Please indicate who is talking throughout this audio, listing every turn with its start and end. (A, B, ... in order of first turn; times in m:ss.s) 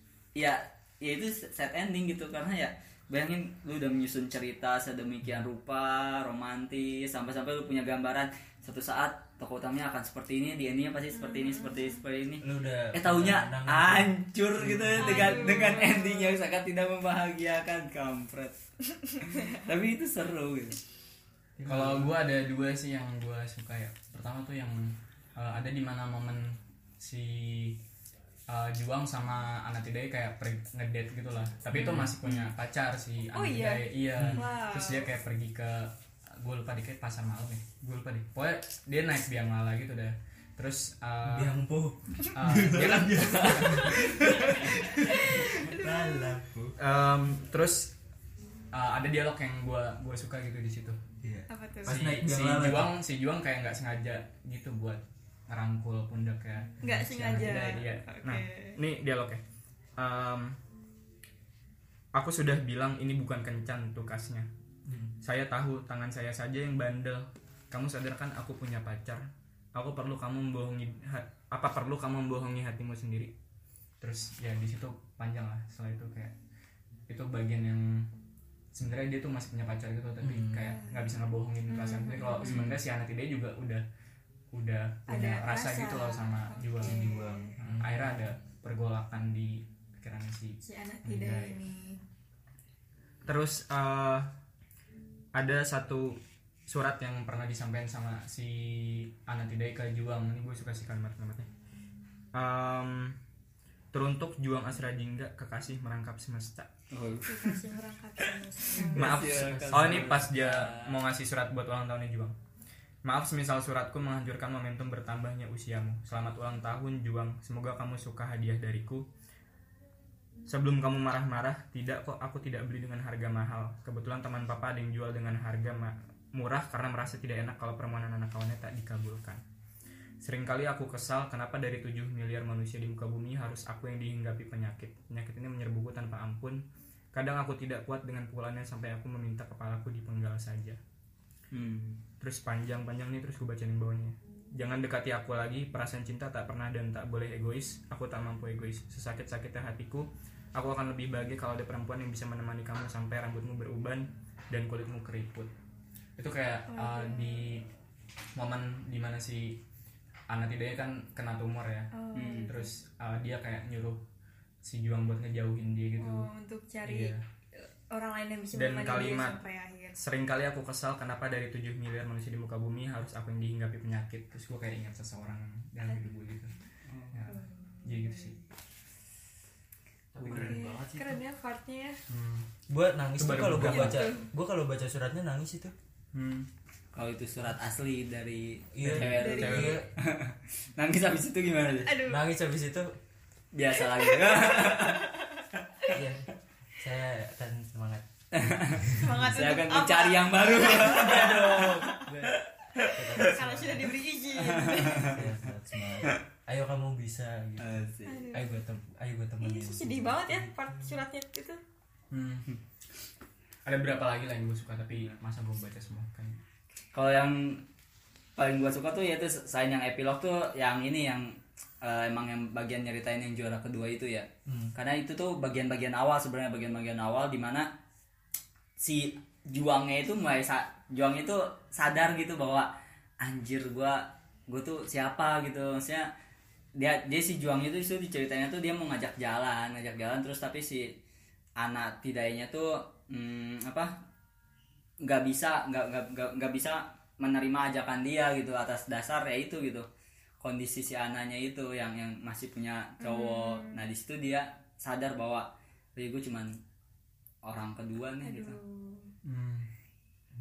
0:00.4-0:18.6 A
0:11.1-0:12.0 B
0:12.4-0:15.6 C
0:15.0-0:16.4 B
0:19.2-0:20.8 A
0:21.6-0:22.2 C
0:21.6-0:27.8 D
0:28.5-0:41.6 D
0:31.7-0:32.1 C
0:33.3-0:35.1 B
0:34.2-0:34.4 C
0:41.2-0:46.8 C
0:42.3-0:44.7 D
0:43.9-0:46.3 B
0:46.8-0:47.9 D
0:48.7-0:51.0 D
0:51.2-0:53.0 C
0:51.5-0:52.0 B
0:51.8-0:59.4 D
0:56.8-0:58.8 B
0:56.8-0:57.3 C
1:00.0-1:00.6 D
1:02.1-1:04.5 D
1:04.8-1:05.1 C
1:05.2-1:13.3 D
1:14.0-1:16.3 D
1:17.1-1:18.1 D
1:18.7-1:23.8 D
1:20.2-1:20.7 C
1:21.7-1:22.7 B
1:22.4-1:22.8 A
1:24.5-1:31.6 D
1:25.1-1:27.5 B
1:26.8-1:28.2 C
1:30.6-1:32.0 B
1:33.2-1:34.3 D
1:35.3-1:41.5 D
1:42.3-1:43.2 D
1:43.9-1:46.7 D
1:46.9-1:47.6 A
1:47.2-1:49.1 B
1:48.8-1:51.0 A
1:48.8-1:52.4 D
1:48.9-1:50.3 C
1:53.0-1:59.1 D
2:00.4-2:09.4 D
2:10.2-2:20.8 D
2:21.5-2:22.0 A
2:22.2-2:35.5 D
2:36.2-2:37.6 D
2:36.7-2:37.5 B
2:38.3-2:39.6 D
2:40.3-2:44.0 D
2:41.9-2:42.7 B
2:42.1-2:42.5 A
2:44.6-2:46.3 D
2:46.0-2:50.0 B
2:46.8-2:47.2 D
2:48.5-2:49.4 D
2:50.0-2:56.5 D
2:55.9-2:56.2 B
2:57.1-2:58.3 D
2:57.3-2:58.4 B
3:00.1-3:01.2 C
3:00.2-3:00.6 D
3:00.4-3:02.0 B
3:02.1-3:02.5 D
3:02.7-3:05.7 C
3:03.2-3:04.1 D
3:03.6-3:04.3 B
3:06.1-3:06.5 D
3:06.9-3:12.0 A
3:08.7-3:09.9 C
3:08.8-3:09.8 D
3:09.2-3:09.7 B
3:11.8-3:12.2 B
3:12.0-3:13.0 C
3:13.5-3:15.1 A
3:14.0-3:15.3 B
3:15.9-3:18.0 C
3:18.3-3:21.7 A
3:18.8-3:19.3 C
3:19.0-3:21.8 B
3:20.6-3:24.0 C
3:23.2-3:25.2 B
3:24.4-3:25.2 A
3:24.9-3:31.0 C
3:27.6-3:28.2 A
3:28.0-3:28.5 B
3:29.4-3:31.6 B
3:32.1-3:32.5 D
3:33.6-3:36.4 D
3:36.9-3:37.6 A
3:38.4-3:47.7 A
3:44.4-3:44.7 C
3:48.8-3:56.1 A
3:56.8-4:01.0 A
4:01.6-4:03.9 A
4:05.0-4:09.8 A
4:10.4-4:16.6 A
4:13.0-4:13.8 B
4:17.4-4:18.6 A
4:18.2-4:19.1 B
4:19.2-4:19.7 D